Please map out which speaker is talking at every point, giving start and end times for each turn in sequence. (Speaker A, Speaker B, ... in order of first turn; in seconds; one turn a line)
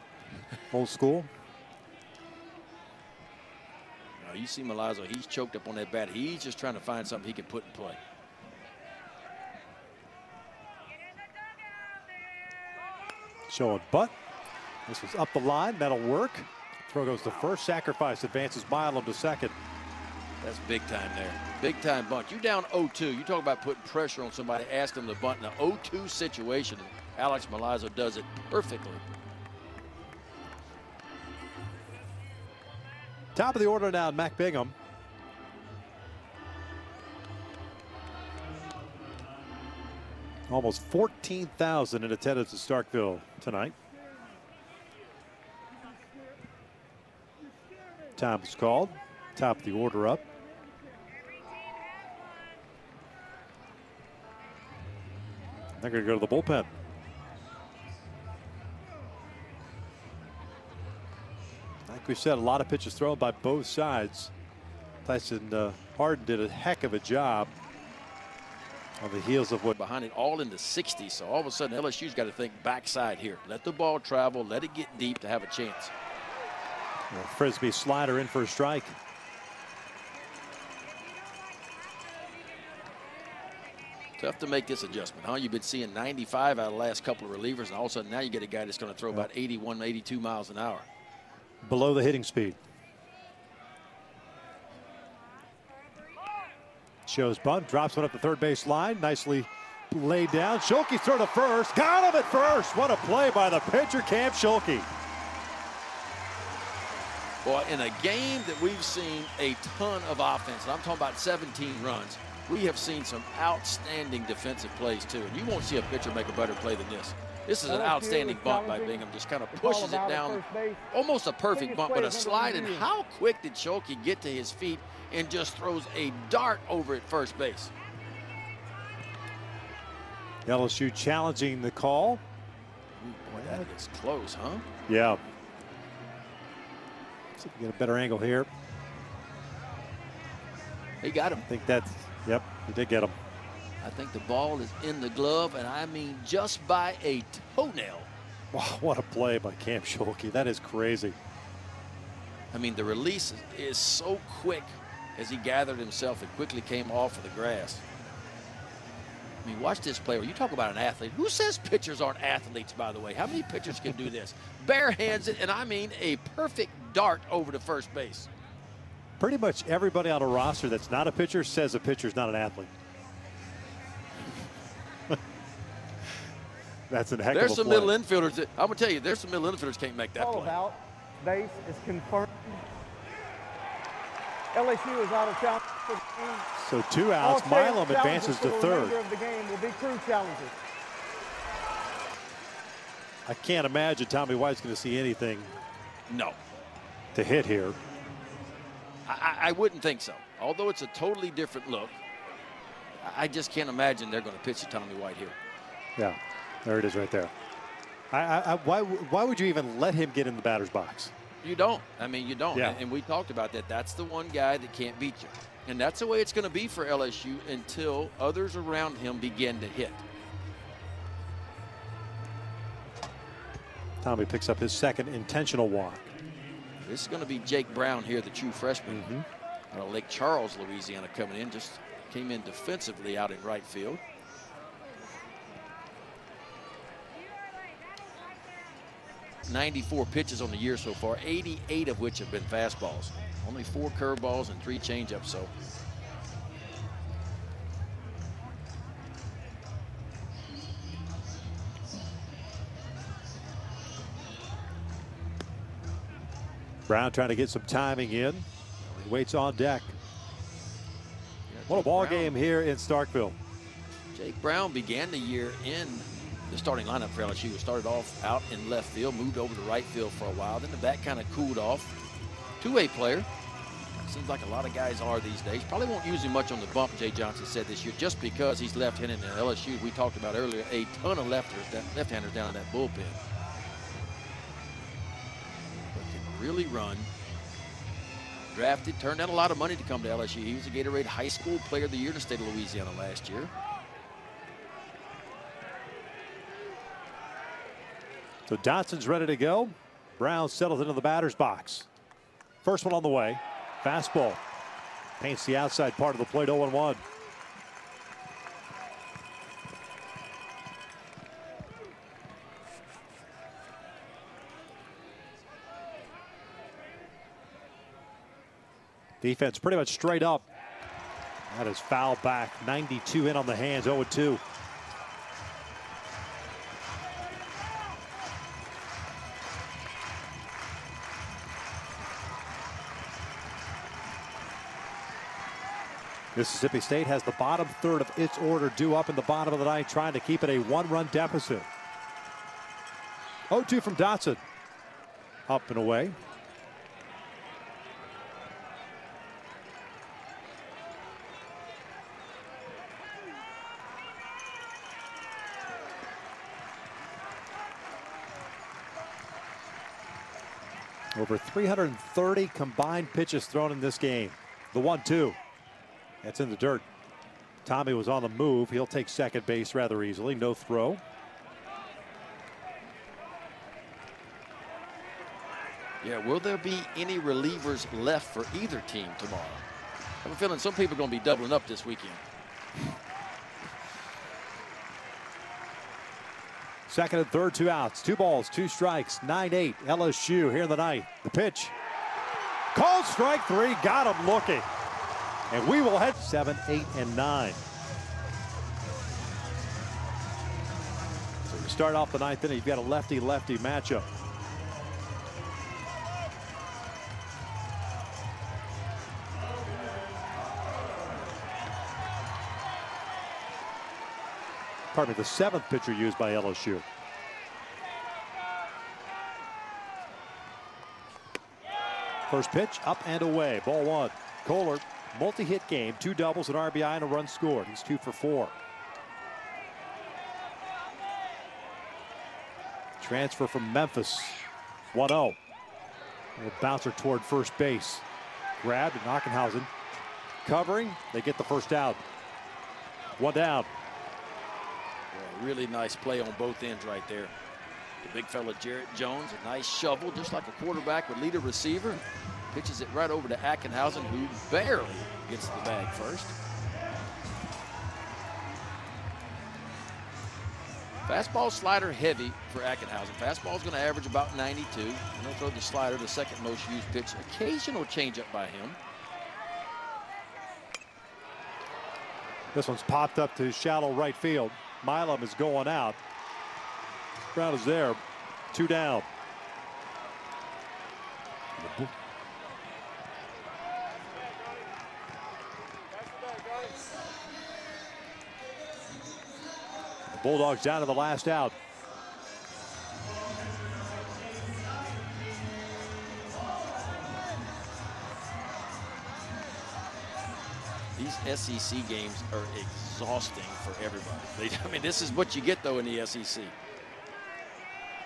Speaker A: 0.7-1.3
Speaker B: 4.2-8.0
Speaker A: 13.5-14.2
Speaker A: 14.9-19.6
Speaker B: 20.4-29.0
Speaker A: 33.4-34.8
Speaker A: 40.5-43.8
Speaker A: 48.2-50.2
Speaker A: 55.8-56.7
Speaker A: 61.9-64.3
Speaker A: 65.0-67.5
Speaker A: 69.0-69.7
Speaker B: 69.7-75.9
Speaker A: 77.1-79.0
Speaker B: 84.2-90.9
Speaker A: 91.6-92.6
Speaker A: 97.1-104.9
Speaker B: 107.4-127.7
Speaker C: 117.7-119.0
Speaker C: 119.5-120.9
Speaker C: 121.5-122.9
Speaker A: 130.5-132.2
Speaker B: 133.0-134.6
Speaker A: 133.3-133.7
Speaker A: 134.9-135.2
Speaker A: 137.4-138.5
Speaker B: 141.0-141.5
Speaker A: 141.4-143.2
Speaker B: 143.8-148.1
Speaker A: 148.5-151.2
Speaker B: 152.5-157.8
Speaker B: 159.4-168.3
Speaker A: 169.2-172.7
Speaker A: 176.9-177.9
Speaker B: 177.3-180.6
Speaker C: 180.2-182.6
Speaker C: 184.5-186.5
Speaker A: 186.6-189.0
Speaker C: 187.2-190.6
Speaker A: 193.3-195.5
Speaker B: 196.1-196.4
Speaker A: 197.1-197.8
Speaker B: 199.1-202.0
Speaker B: 203.0-205.4
Speaker A: 206.0-207.3
Speaker A: 208.1-211.1
Speaker B: 211.4-220.0
Speaker A: 212.5-212.8
Speaker A: 224.0-226.1
Speaker B: 226.8-229.1
Speaker A: 228.9-229.3
Speaker B: 229.7-234.0
Speaker B: 239.5-245.5
Speaker A: 256.9-260.0
Speaker B: 261.5-262.4
Speaker A: 261.7-263.4
Speaker B: 264.1-271.9
Speaker B: 272.6-273.3
Speaker B: 274.0-283.2
Speaker B: 285.9-287.1
Speaker B: 288.5-293.5
Speaker A: 298.5-301.9
Speaker A: 302.6-304.4
Speaker A: 305.2-307.0
Speaker A: 319.2-320.4
Speaker A: 321.5-324.4
Speaker A: 336.3-341.7
Speaker A: 343.5-344.4
Speaker A: 345.5-346.2
Speaker A: 361.1-365.4
Speaker A: 366.2-366.9
Speaker A: 367.6-371.0
Speaker B: 376.0-379.6
Speaker B: 380.2-382.2
Speaker A: 386.9-391.8
Speaker A: 392.7-394.7
Speaker A: 395.5-397.6
Speaker A: 401.4-404.1
Speaker A: 414.9-416.9
Speaker A: 422.3-428.6
Speaker A: 433.0-435.4
Speaker A: 436.4-438.1
Speaker A: 438.6-439.7
Speaker A: 440.4-442.0
Speaker A: 443.2-443.7
Speaker B: 445.1-447.3
Speaker B: 448.0-456.4
Speaker B: 461.1-468.8
Speaker A: 472.5-476.0
Speaker A: 477.3-478.0
Speaker A: 478.5-479.1
Speaker A: 481.6-481.9
Speaker A: 490.1-491.6
Speaker B: 501.0-506.5